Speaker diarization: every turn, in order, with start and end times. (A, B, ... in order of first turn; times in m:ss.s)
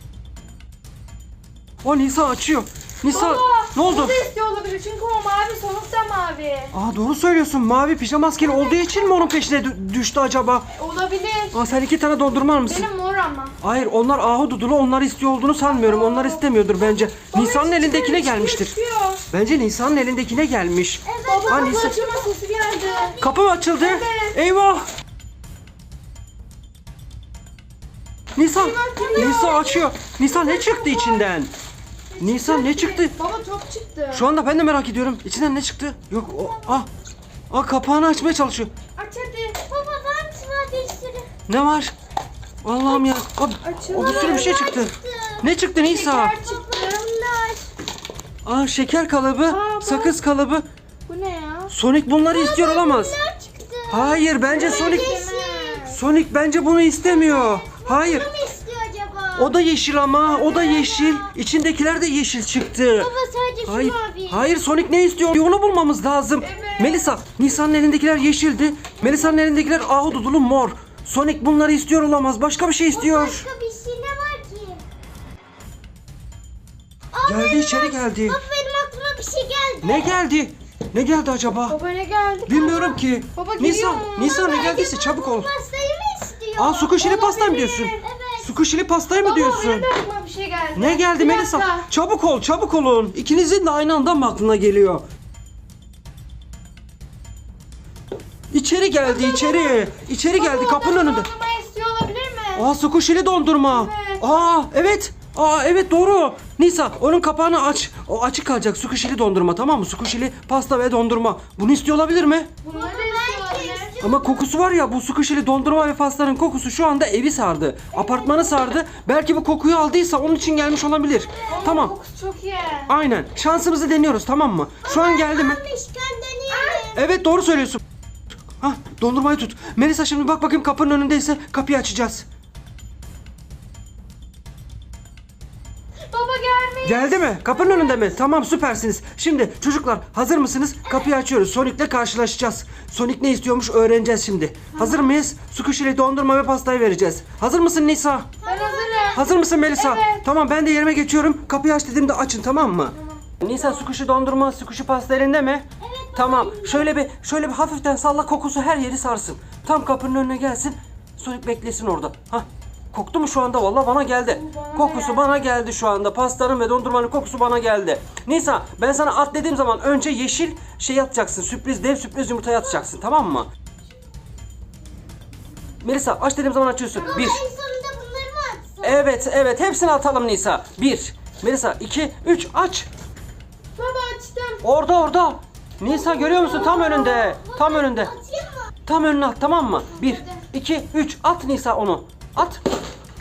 0:01.8-0:04.2 A
0:03.1-0:06.7 B
0:06.7-0:10.7 A
0:08.3-0:09.3 B
0:10.7-0:11.6 B
0:11.5-0:12.9 A
0:12.6-0:13.6 B
0:13.6-0:18.8 A
0:15.6-0:19.2 B
0:19.3-0:22.0 A
0:21.0-0:23.2 C
0:21.3-0:23.2 B
0:23.2-0:24.9 A
0:23.8-0:24.4 B
0:28.4-0:31.5 A
0:28.6-0:31.2 B
0:32.1-0:34.3 B
0:32.2-0:33.2 A
0:34.1-0:36.9 A
0:37.5-0:38.7 A
0:39.0-0:39.6 B
0:39.6-0:41.3 C
0:41.5-0:42.0 A
0:42.6-0:46.4 A
0:43.6-0:44.7 B
0:44.0-0:45.5 C
0:45.8-0:47.0 B
0:46.4-0:47.7 C
0:48.4-0:50.7 A
0:49.4-0:50.2 B
0:51.1-0:51.7 B
0:51.7-0:53.2 A
0:52.3-0:55.8 C
0:53.9-0:55.1 A
0:54.5-0:56.0 B
0:55.8-0:58.3 A
0:57.0-0:59.6 C
0:59.4-1:03.1 A
1:00.2-1:01.3 C
1:03.0-1:04.5 C
1:03.6-1:13.5 A
1:06.4-1:07.2 B
1:12.9-1:14.8 C
1:17.1-1:20.2 C
1:17.2-1:18.4 A
1:19.8-1:21.8 A
1:21.7-1:24.2 B
1:22.5-1:25.5 A
1:24.1-1:28.5 C
1:26.6-1:29.9 A
1:27.2-1:27.7 B
1:29.2-1:31.9 B
1:30.8-1:35.0 A
1:38.5-1:41.3 A
1:39.0-1:42.7 B
1:42.6-1:52.5 A
1:43.6-1:44.5 B
1:52.6-1:53.9 B
1:52.7-1:54.4 C
1:54.0-2:02.0 A
2:01.3-2:01.7 C
2:01.5-2:03.0 B
2:02.9-2:05.6 A
2:04.8-2:07.1 C
2:06.5-2:06.9 B
2:06.9-2:07.8 A
2:08.6-2:12.3 A
2:16.1-2:18.2 B
2:16.8-2:28.4 A
2:24.7-2:25.1 B
2:28.4-2:29.4 C
2:28.4-2:30.2 B
2:29.1-2:53.5 A
2:33.1-2:33.9 B
2:35.8-2:36.9 C
2:44.2-2:45.3 B
2:55.8-2:57.4 A
2:57.0-2:59.1 C
2:58.8-3:02.9 A
3:03.8-3:04.6 B
3:04.6-3:08.1 A
3:05.8-3:08.7 C
3:08.9-3:12.6 A
3:09.9-3:10.4 B